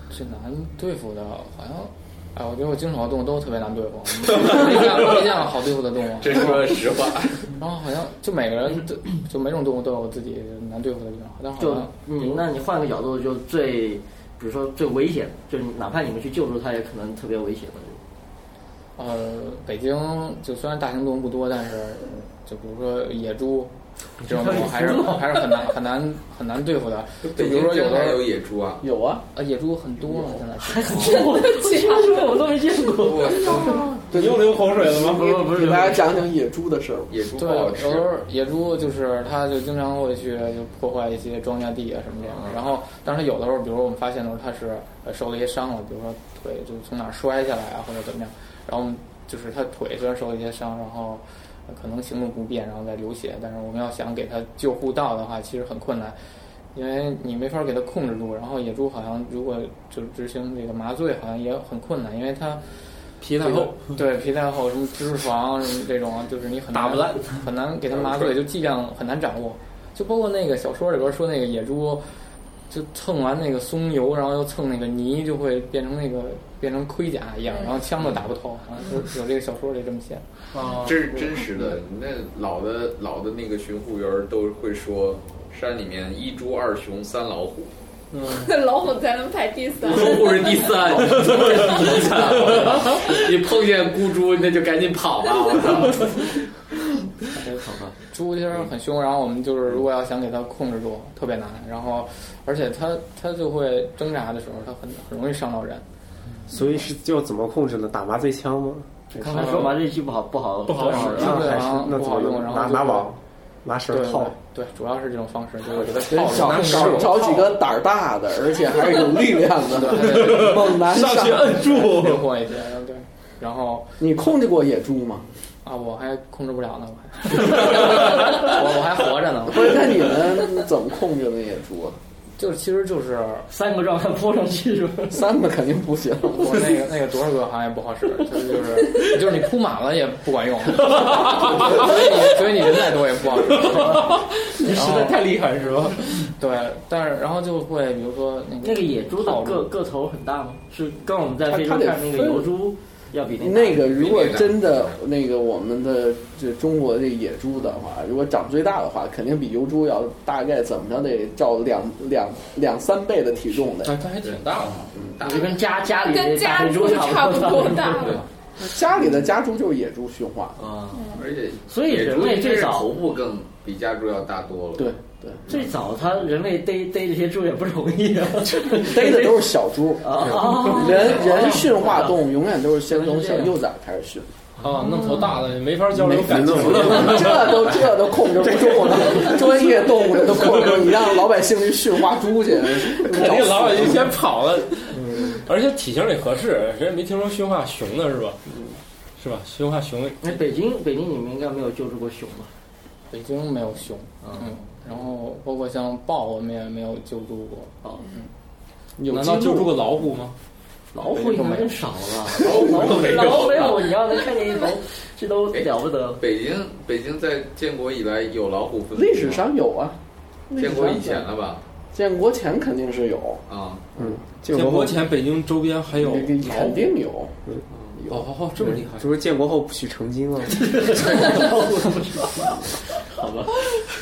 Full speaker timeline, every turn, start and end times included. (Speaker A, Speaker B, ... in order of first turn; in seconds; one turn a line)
Speaker A: 0.1-6.9
Speaker B: 6.2-7.5
Speaker A: 7.5-12.4
Speaker C: 11.6-18.0
Speaker A: 19.0-28.2
Speaker C: 24.2-25.7
Speaker B: 27.2-28.9
Speaker D: 28.8-29.2
Speaker A: 29.3-31.3
Speaker C: 30.6-33.9
Speaker E: 30.9-32.5
Speaker B: 33.0-33.8
Speaker E: 33.5-33.9
Speaker D: 34.1-37.2
Speaker F: 34.1-35.4
Speaker C: 34.9-36.1
Speaker B: 37.1-38.1
Speaker A: 37.3-56.2
Speaker C: 42.3-42.6
Speaker A: 56.7-62.6
Speaker F: 63.2-63.9
Speaker A: 63.4-72.1
Speaker F: 66.7-67.3
Speaker F: 67.9-68.3
Speaker A: 72.7-80.2
Speaker E: 77.5-77.8
Speaker F: 80.5-81.0
Speaker B: 80.8-87.7
Speaker F: 88.1-88.5
Speaker E: 88.3-90.8
Speaker B: 89.8-96.3
Speaker F: 91.0-93.2
Speaker A: 97.3-105.8
Speaker C: 97.6-98.0
Speaker G: 106.5-109.7
Speaker C: 109.1-111.6
Speaker A: 109.3-109.8
Speaker F: 110.7-111.5
Speaker A: 110.8-113.1
Speaker G: 110.9-114.3
Speaker A: 113.9-117.3
Speaker D: 116.0-121.8
Speaker F: 116.3-117.5
Speaker A: 119.7-120.6
Speaker F: 120.0-122.3
Speaker A: 121.5-124.0
Speaker D: 124.0-125.3
Speaker A: 125.6-130.0
Speaker D: 129.5-132.0
Speaker A: 132.4-133.5
Speaker C: 133.5-135.2
Speaker D: 135.1-136.7
Speaker A: 136.3-145.2
Speaker F: 140.9-141.9
Speaker F: 143.5-146.3
Speaker A: 146.2-149.7
Speaker C: 148.6-153.8
Speaker D: 151.5-152.5
Speaker D: 153.4-163.9
Speaker B: 153.8-154.6
Speaker F: 163.8-164.8
Speaker B: 164.2-165.6
Speaker C: 165.2-168.2
Speaker E: 166.0-168.2
Speaker D: 168.6-170.6
Speaker C: 170.6-171.1
Speaker E: 170.9-171.3
Speaker B: 171.2-174.9
Speaker C: 171.7-172.9
Speaker D: 174.8-175.4
Speaker C: 175.5-179.5
Speaker D: 178.7-184.3
Speaker C: 180.0-182.2
Speaker G: 180.2-180.7
Speaker C: 182.9-183.5
Speaker F: 184.6-187.7
Speaker G: 185.9-187.9
Speaker D: 186.3-194.1
Speaker G: 188.4-189.4
Speaker F: 193.0-198.4
Speaker G: 195.0-195.3
Speaker F: 199.2-200.4
Speaker C: 200.2-202.5
Speaker A: 203.1-207.8
Speaker C: 204.2-204.5
Speaker D: 209.0-209.7
Speaker F: 209.1-210.3
Speaker C: 210.9-216.2
Speaker A: 211.1-211.8
Speaker B: 212.4-213.9
Speaker B: 215.5-219.4
Speaker D: 218.9-220.0
Speaker D: 220.5-221.3
Speaker B: 220.5-221.6
Speaker D: 221.9-223.4
Speaker B: 223.5-223.9
Speaker G: 224.0-225.0
Speaker F: 224.5-226.8
Speaker D: 226.0-227.4
Speaker D: 227.9-228.3
Speaker F: 228.1-229.1
Speaker G: 228.6-231.5
Speaker C: 230.5-232.6
Speaker C: 233.2-233.5